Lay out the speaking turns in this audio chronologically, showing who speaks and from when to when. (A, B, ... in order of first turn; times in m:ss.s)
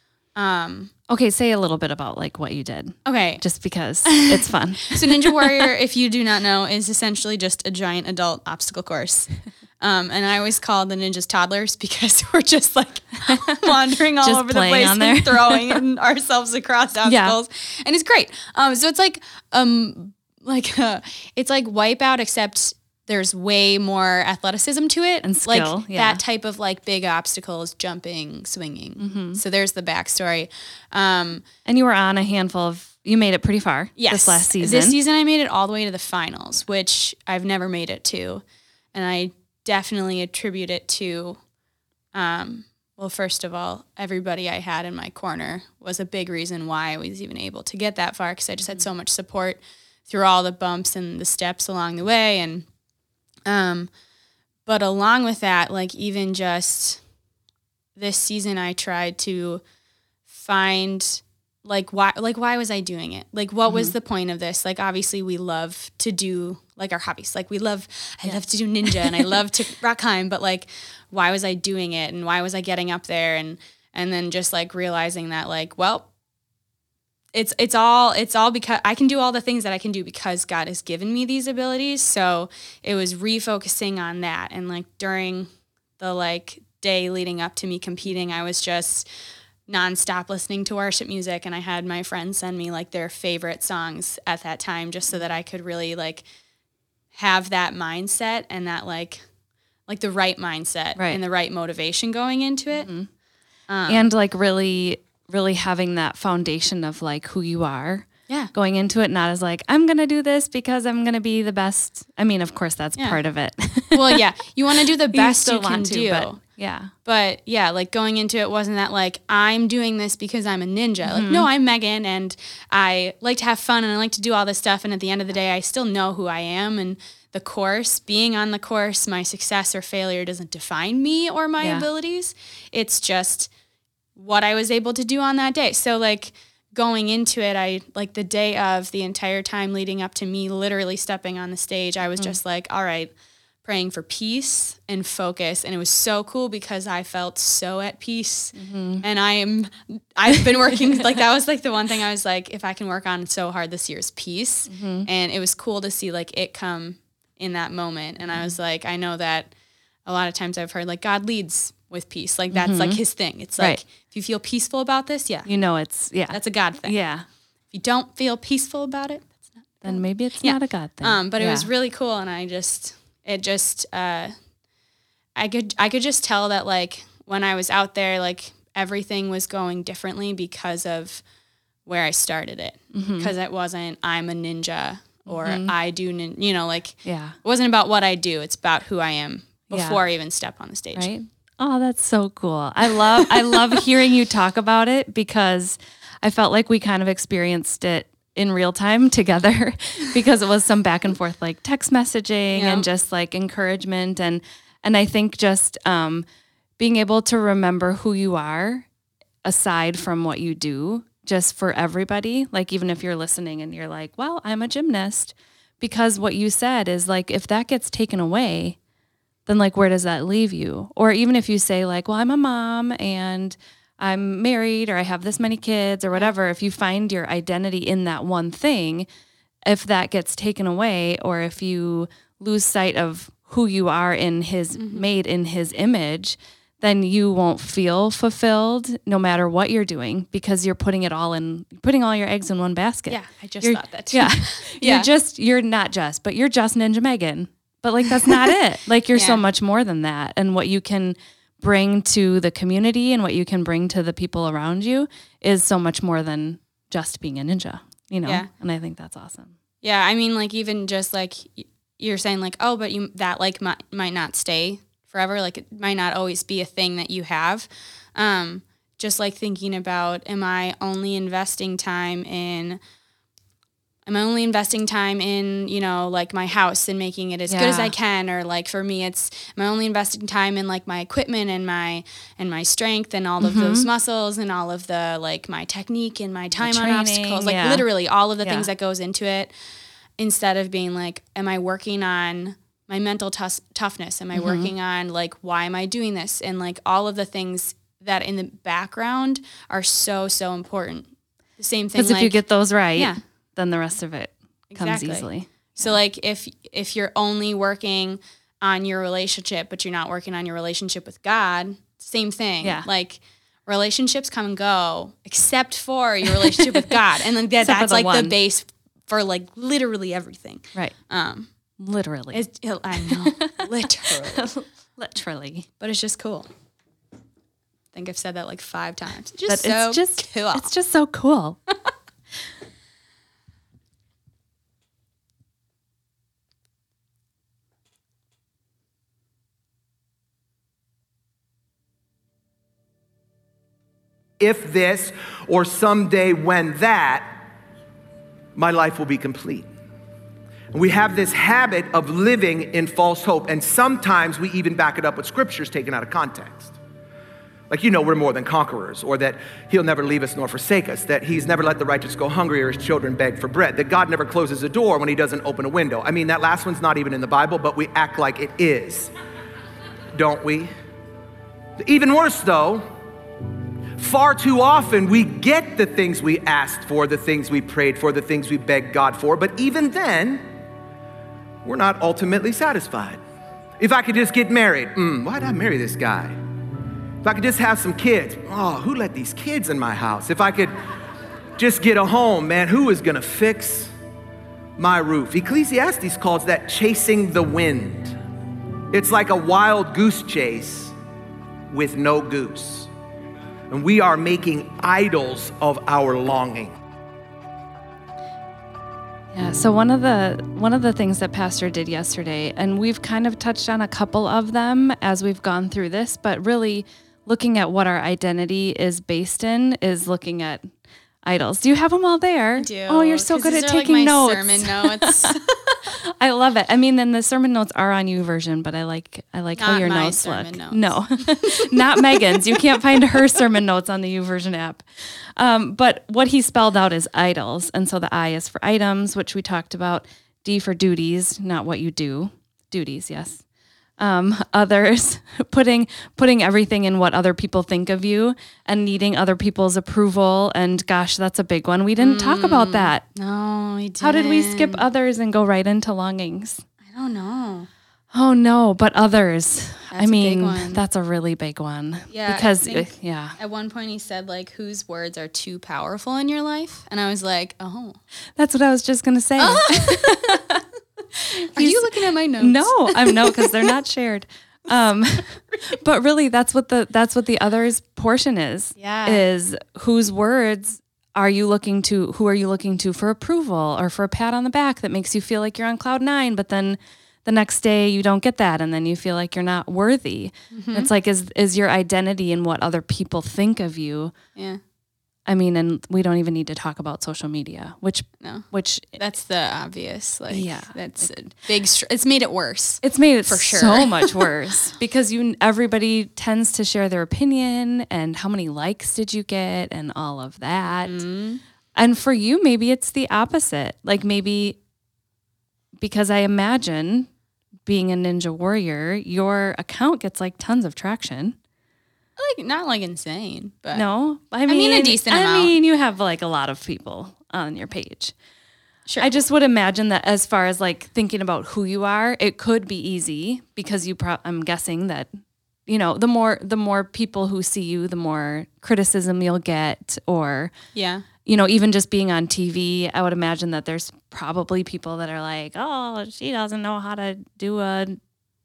0:00.4-0:00.9 A
0:01.1-0:05.7 B
0:03.1-0:03.4 A
0:04.1-0:31.4 A
0:13.3-0:15.8 B
0:17.1-0:17.4 B
0:25.2-0:26.2 B
0:29.0-0:29.4 B
0:31.6-0:35.0 B
0:34.0-0:41.4 A
0:42.1-0:52.7 A
0:53.5-0:53.9 A
0:54.7-0:57.0 A
0:58.0-0:59.6 A
1:00.3-1:16.1 A
1:03.7-1:03.9 B
1:08.9-1:09.3 B
1:17.3-1:29.1 A
1:29.7-1:36.2 A
1:37.1-1:39.2 A
1:39.9-1:42.9 A
1:42.8-1:43.1 B
1:43.7-1:44.0 A
1:43.9-1:54.2 B
1:53.9-1:56.4 A
1:55.1-1:56.9 B
1:57.0-2:13.5 A
2:01.0-2:01.5 B
2:11.6-2:11.9 B
2:14.2-2:23.1 A
2:23.6-2:39.5 A
2:28.6-2:29.0 B
2:34.7-2:35.1 B
2:40.1-2:45.5 A
2:42.5-2:43.0 B
2:45.5-2:47.2 B
2:46.3-2:47.0 A
2:47.7-2:54.3 A
2:49.8-2:51.7 B
2:55.4-3:01.2 A
3:01.9-3:11.1 A
3:02.9-3:03.3 B
3:05.3-3:05.7 B
3:07.0-3:07.4 B
3:09.7-3:10.0 B
3:11.0-3:26.2 B
3:22.6-3:22.8 A
3:26.8-3:28.9 B
3:29.4-3:38.8 B
3:39.5-3:49.1 B
3:49.7-4:19.5 B
3:54.8-3:55.1 A
4:03.1-4:05.1 A
4:09.1-4:09.4 A
4:19.8-4:32.8 A
4:34.1-4:49.5 A
4:37.5-4:37.9 B
4:43.4-4:43.9 B
4:46.6-4:47.8 B
4:48.4-4:48.7 B
4:50.2-5:02.4 A
4:54.3-4:54.7 B
5:02.0-5:05.9 B
5:04.7-5:21.5 A
5:16.3-5:17.0 B
5:17.6-5:18.3 B
5:21.8-5:22.4 B
5:22.3-5:24.5 A
5:23.0-5:23.7 B
5:24.3-5:25.7 B
5:25.8-5:26.5 A
5:27.9-5:30.7 A
5:29.5-5:31.6 B
5:44.4-5:47.4 C
5:48.6-5:49.7 C
5:50.7-5:56.8 C
5:57.7-6:09.1 C
6:10.2-6:10.7 C
6:11.8-6:12.8 C
6:14.0-6:20.4 C
6:21.6-6:23.2 C
6:23.8-6:26.4 C
6:27.2-6:30.7 C
6:31.6-6:33.9 C
6:34.8-6:38.2 C
6:38.9-6:41.0 C
6:41.7-6:42.9 C
6:43.7-6:46.8 C
6:49.3-7:00.7 B
7:01.2-7:05.4 B
7:02.6-7:05.8 A
7:05.9-7:23.4 B
7:09.6-7:12.6 A
7:24.0-7:33.0 B
7:32.0-7:34.8 A
7:34.0-7:36.6 B
7:36.9-7:37.7 A
7:38.1-7:43.4 B
7:39.9-7:40.8 A
7:42.1-7:48.0 A
7:48.4-7:50.6 B
7:49.4-7:50.5 A
7:51.2-7:51.9 B
7:51.5-7:53.7 A
7:52.4-8:14.2 B
7:58.8-7:59.2 A
8:10.5-8:10.9 A
8:14.4-8:14.6 A
8:15.3-8:19.0 B
8:18.2-8:24.3 A
8:20.3-8:21.3 B
8:22.8-8:31.0 B
8:30.9-8:31.4 A
8:31.8-8:34.6 B
8:35.8-8:37.1 B
8:37.7-8:41.4 B
8:42.2-8:43.8 A
8:43.7-8:48.2 B
8:44.5-8:45.5 A
8:49.0-8:55.1 B
8:55.7-9:00.5 B
9:00.8-9:01.1 A
9:01.2-9:08.0 B